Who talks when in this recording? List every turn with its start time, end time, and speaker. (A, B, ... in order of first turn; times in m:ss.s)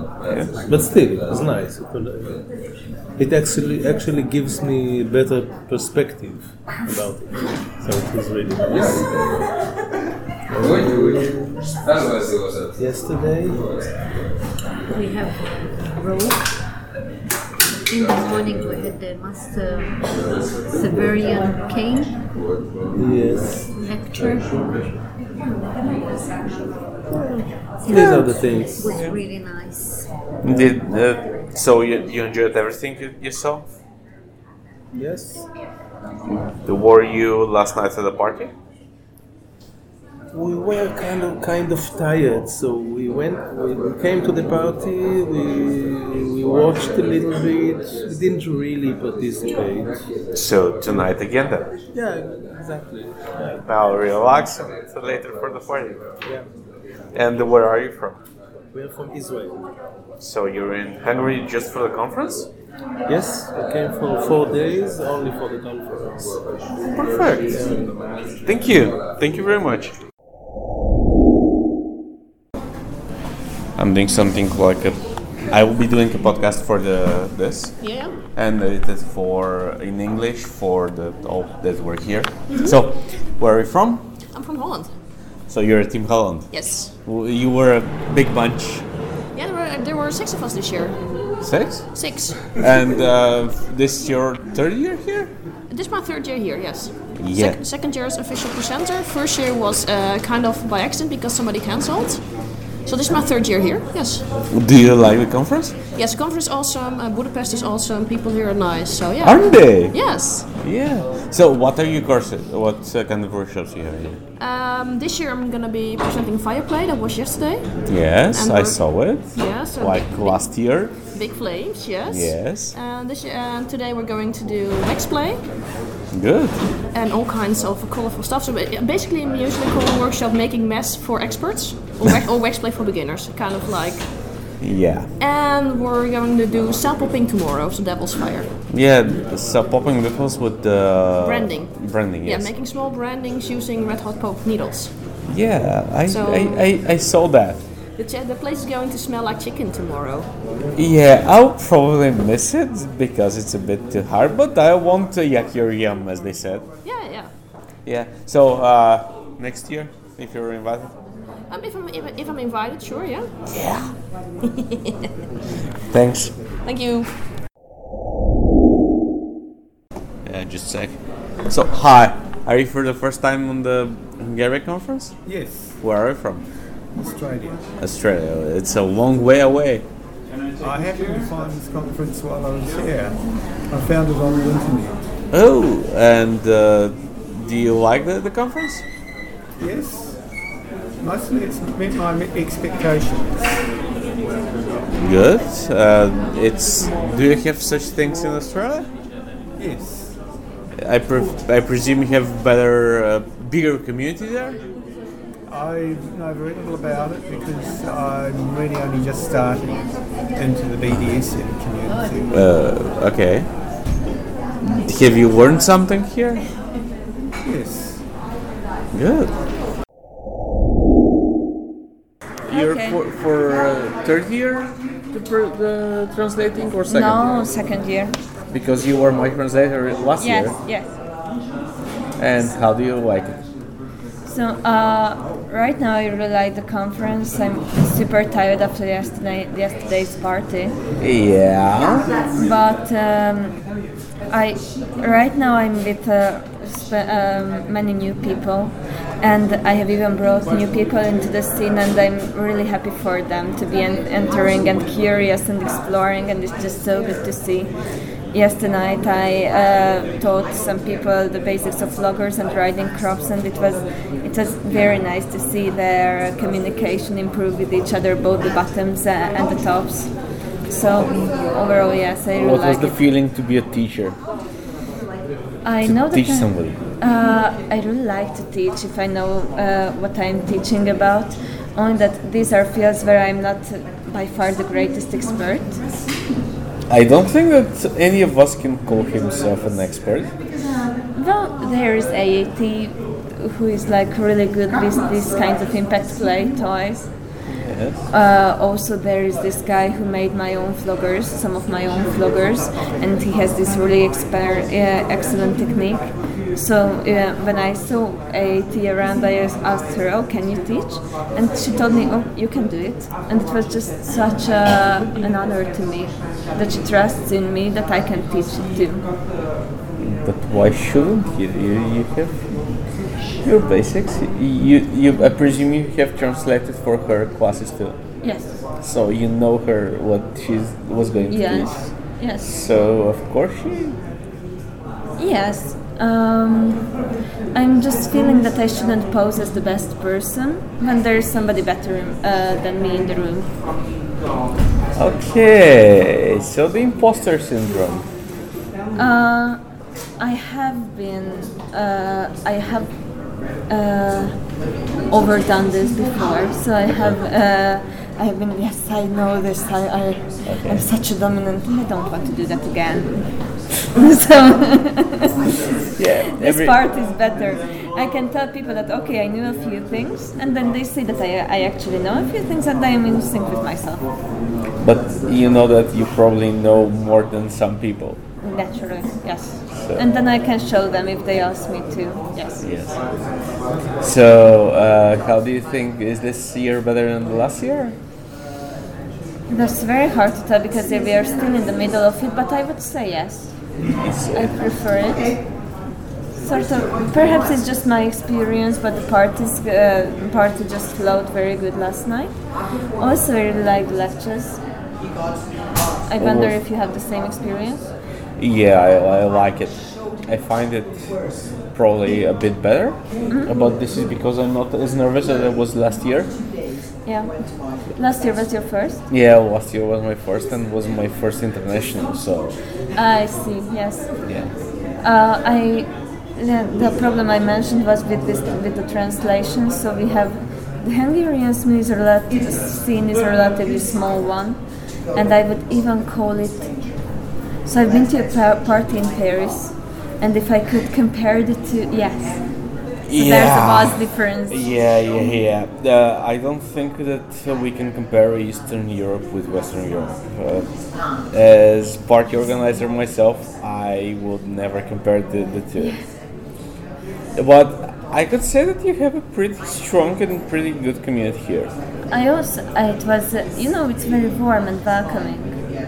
0:00.6-0:02.4 A
0:03.2-0:09.1 A
0:10.5-0:11.8 A
0:12.8-0:13.7 A
0:14.9-0:16.4 B
0:17.9-0:20.1 B
0:20.7-0:22.1 B
0:22.9-0:23.7 A
0:23.7-0:24.5 B
0:27.8-0:29.1 A
0:27.9-0:28.4 C
0:28.8-0:30.1 B
0:30.4-0:33.7 C
0:34.9-0:35.4 A
0:36.5-0:38.5 C
0:40.3-0:50.0 A
0:50.3-0:51.7 C
0:51.9-0:53.6 A
0:53.6-0:56.0 C
0:57.1-0:58.2 C
0:58.7-0:59.6 A
1:00.2-1:02.5 C
1:03.1-1:06.4 A
1:06.9-1:07.5 C
1:07.5-1:07.9 A
1:08.4-1:09.9 C
1:13.8-1:24.0 C
1:17.8-1:18.2 D
1:22.5-1:22.8 D
1:24.3-1:24.9 D
1:25.4-1:28.8 C
1:26.5-1:26.9 D
1:29.3-1:32.5 D
1:31.4-1:35.3 C
1:35.7-1:44.3 D
1:37.2-1:37.6 C
1:44.5-1:45.7 C
1:45.9-1:50.5 D
1:49.2-1:54.2 C
1:54.4-2:05.5 D
1:57.8-2:01.0 C
2:02.1-2:02.8 C
2:06.1-2:06.6 C
2:06.9-2:14.4 D
2:14.6-2:15.1 C
2:15.2-2:18.5 D
2:18.7-2:22.5 C
2:21.2-2:25.0 D
2:25.2-2:27.6 C
2:26.0-2:26.8 D
2:27.9-2:30.3 D
2:30.7-2:36.6 C
2:36.8-2:37.3 D
2:37.8-2:40.9 C
2:41.5-2:43.3 D
2:43.5-2:43.9 C
2:45.9-2:46.4 C
2:46.6-2:47.1 D
2:50.2-2:56.5 C
2:55.2-2:55.8 E
2:56.9-2:57.7 E
2:57.8-2:59.8 C
3:00.6-3:05.0 E
3:05.3-3:08.8 C
3:09.6-3:10.5 E
3:11.0-3:13.7 E
3:15.0-3:18.9 C
3:19.6-3:20.2 E
3:20.8-3:24.6 C
3:25.5-3:32.4 E
3:32.3-3:33.5 C
3:34.6-3:36.4 C
3:37.4-3:38.0 E
3:38.9-3:39.3 C
3:42.5-3:43.0 F
3:42.5-3:47.2 C
3:46.9-3:48.2 F
3:48.5-3:50.6 C
3:50.2-3:51.0 F
3:52.2-3:53.4 C
3:54.2-4:00.8 F
4:01.0-4:02.1 C
4:02.4-4:03.6 F
4:04.3-4:17.7 F
4:18.3-4:33.0 F
4:32.4-4:34.2 C
4:35.6-4:45.8 F
4:35.8-4:36.8 C
4:46.9-4:50.3 C
4:51.1-4:57.1 F
4:57.6-4:58.0 C
4:58.1-5:19.0 F
5:20.0-5:22.5 C
5:23.4-5:28.0 C
5:28.2-5:28.5 F
5:28.8-5:34.0 C
5:31.3-5:32.4 F
5:35.2-5:36.9 F
5:37.5-5:43.6 F
5:45.0-5:48.0 C
5:48.9-5:49.6 F
5:50.2-5:53.0 F
5:53.7-6:05.3 F
6:00.4-6:00.9 C
6:06.0-6:06.8 C
6:06.3-6:14.1 F
6:14.8-6:18.2 C
6:18.4-6:22.6 F
6:19.7-6:20.0 C
6:22.6-6:23.0 C
6:24.0-6:27.9 C
6:29.5-6:33.7 F
6:34.0-6:34.6 C
6:34.3-6:35.6 F
6:36.4-6:44.6 F
6:46.1-6:47.9 F
6:46.2-6:46.5 C
6:48.4-6:56.3 C
6:57.0-6:57.4 F
6:57.9-6:59.0 F
6:59.1-7:02.6 C
7:02.9-7:04.1 F
7:04.2-7:04.5 C
7:05.0-7:17.1 F
7:17.6-7:24.6 F
7:23.1-7:36.0 C
7:37.4-7:41.7 C
7:42.1-7:45.6 F